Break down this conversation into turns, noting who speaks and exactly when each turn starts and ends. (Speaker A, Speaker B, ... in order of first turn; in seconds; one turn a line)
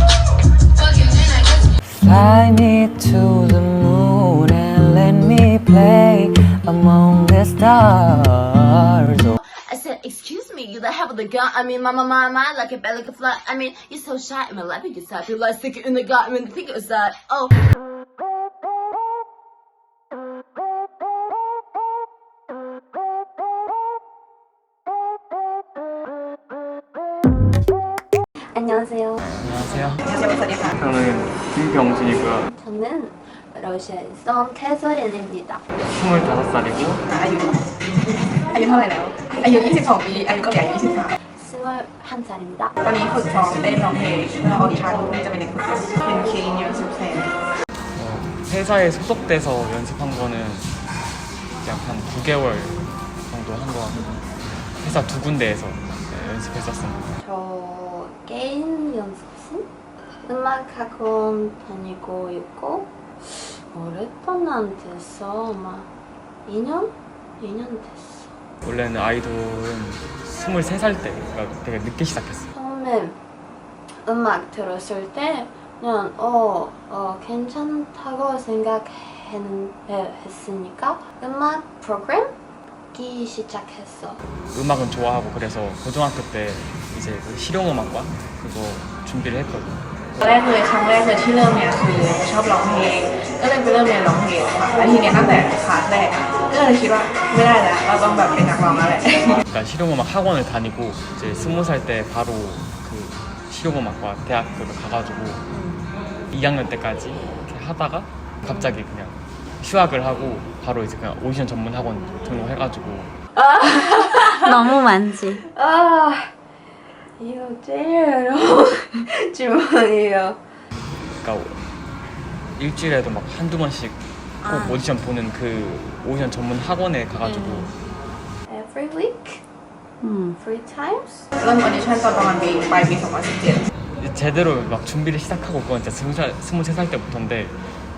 Speaker A: 0.8-1.6
Speaker B: 2.1-8.4
Speaker A: 9.6-17.6
Speaker A: 28.5-29.2
Speaker C: 29.2-30.1
Speaker D: 30.0-30.8
Speaker C: 30.7-32.5
Speaker A: 32.5-35.6
Speaker C: 35.8-37.0
Speaker D: 37.0-37.7
Speaker D: 38.5-41.1
Speaker A: 41.3-42.8
Speaker D: 42.8-47.3
Speaker C: 47.9-50.7
Speaker C: 51.6-57.2
Speaker A: 57.2-59.7
Speaker A: 60.2-65.9
Speaker A: 66.5-68.3
Speaker C: 68.6-72.5
Speaker A: 72.5-73.2
Speaker A: 74.0-82.3
Speaker A: 82.9-84.2
Speaker C: 84.4-90.3
Speaker D: 90.2-99.4
Speaker C: 99.5-105.4
Speaker E: 105.5-105.8
Speaker C: 106.3-113.2
Speaker E: 108.5-108.8
Speaker A: 113.3-114.6
Speaker E: 114.4-115.4
Speaker A: 115.4-116.3
Speaker A: 117.2-120.4
Speaker C: 121.2-121.6
Speaker C: 122.5-127.8
Speaker E: 124.4-124.8
Speaker E: 127.2-127.7
Speaker A: 128.4-129.4
Speaker E: 130.0-130.4
Speaker A: 130.4-131.3
Speaker D: 131.4-133.6
Speaker C: 134.0-137.6